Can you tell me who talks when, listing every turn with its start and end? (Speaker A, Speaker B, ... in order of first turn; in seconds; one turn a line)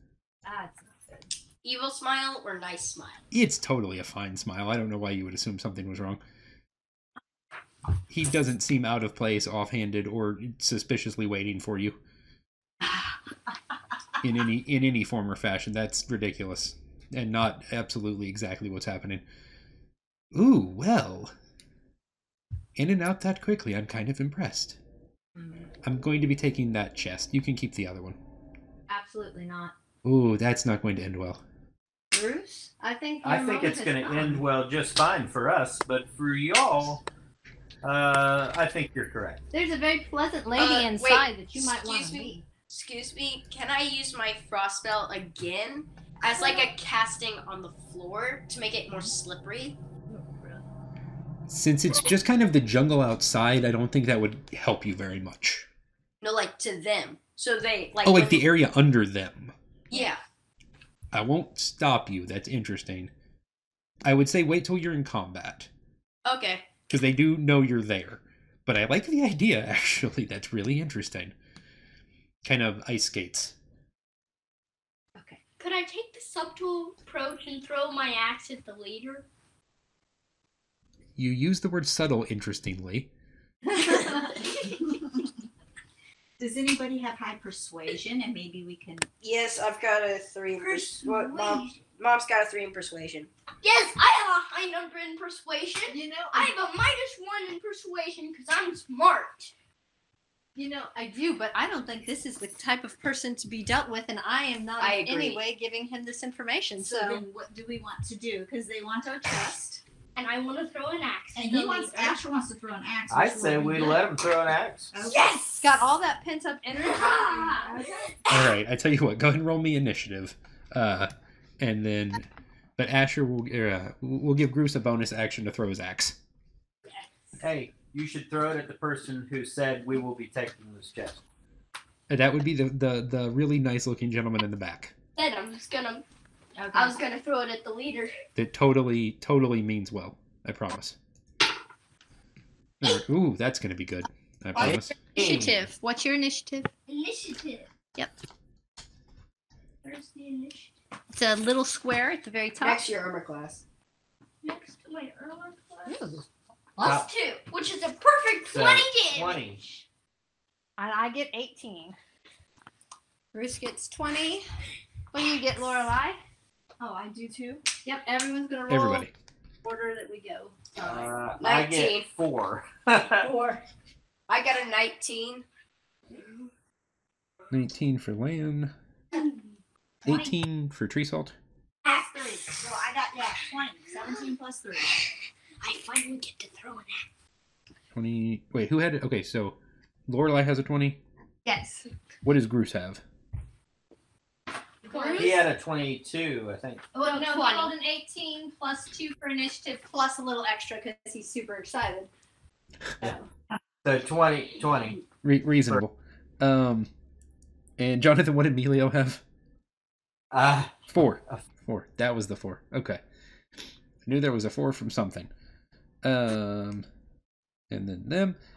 Speaker A: 0.4-1.3
Speaker B: 1.6-3.2
Speaker C: 3.3-6.2
Speaker C: 8.1-12.0
Speaker C: 14.2-19.2
Speaker C: 20.3-21.3
Speaker C: 22.8-24.8
Speaker A: 25.4-25.6
Speaker C: 25.8-28.2
Speaker A: 28.9-29.7
Speaker C: 30.0-31.4
Speaker A: 32.1-34.4
Speaker D: 33.2-37.0
Speaker D: 37.8-39.4
Speaker A: 39.5-42.4
Speaker B: 40.5-49.8
Speaker A: 50.1-50.6
Speaker C: 51.5-55.7
Speaker B: 56.2-58.4
Speaker C: 58.0-59.5
Speaker B: 59.9-60.2
Speaker C: 61.1-63.1
Speaker C: 64.0-65.7
Speaker B: 66.2-66.7
Speaker C: 66.9-71.3
Speaker C: 72.4-73.5
Speaker E: 75.6-79.2
Speaker C: 81.2-83.1
Speaker A: 83.8-84.1
Speaker F: 86.4-89.1
Speaker B: 89.2-93.3
Speaker A: 91.0-91.4
Speaker E: 93.6-99.5
Speaker A: 95.9-96.5
Speaker A: 100.5-107.2
Speaker B: 104.8-105.4
Speaker F: 106.8-109.8
Speaker E: 110.2-112.2
Speaker F: 111.3-114.0
Speaker D: 113.1-114.9
Speaker F: 114.9-115.4
Speaker B: 115.0-115.6
Speaker A: 115.6-117.8
Speaker F: 117.6-118.1
Speaker C: 118.3-126.2
Speaker D: 127.4-131.2
Speaker C: 132.1-134.9
Speaker B: 135.2-136.0
Speaker F: 136.6-137.0
Speaker B: 136.7-138.1
Speaker C: 138.3-140.9
Speaker C: 142.8-144.9
Speaker A: 144.5-146.7
Speaker D: 144.6-145.6
Speaker E: 146.9-147.7
Speaker E: 149.8-150.7
Speaker A: 151.1-152.8
Speaker B: 152.6-153.6
Speaker E: 154.4-155.9
Speaker A: 155.8-156.2
Speaker E: 156.8-159.4
Speaker D: 156.8-157.1
Speaker D: 158.5-159.6
Speaker A: 160.8-161.9
Speaker A: 163.3-164.4
Speaker A: 165.1-166.2
Speaker F: 166.8-167.6
Speaker A: 167.8-169.1
Speaker C: 168.7-169.1
Speaker A: 169.6-170.6
Speaker D: 170.8-173.3
Speaker B: 171.4-172.1
Speaker B: 174.3-175.4
Speaker C: 177.5-178.7
Speaker C: 180.0-181.3
Speaker F: 181.8-184.9
Speaker E: 185.6-187.0
Speaker C: 187.9-189.6
Speaker C: 190.1-191.0
Speaker A: 191.4-191.8
Speaker C: 192.2-193.0
Speaker A: 194.8-195.4
Speaker E: 194.9-195.4
Speaker D: 195.2-196.9
Speaker E: 196.9-197.7
Speaker A: 197.0-202.1
Speaker D: 203.8-205.0
Speaker C: 205.2-206.9
Speaker C: 207.8-209.2
Speaker D: 210.3-211.4
Speaker C: 210.9-213.0
Speaker C: 214.0-215.3
Speaker C: 216.0-216.8
Speaker C: 217.7-218.4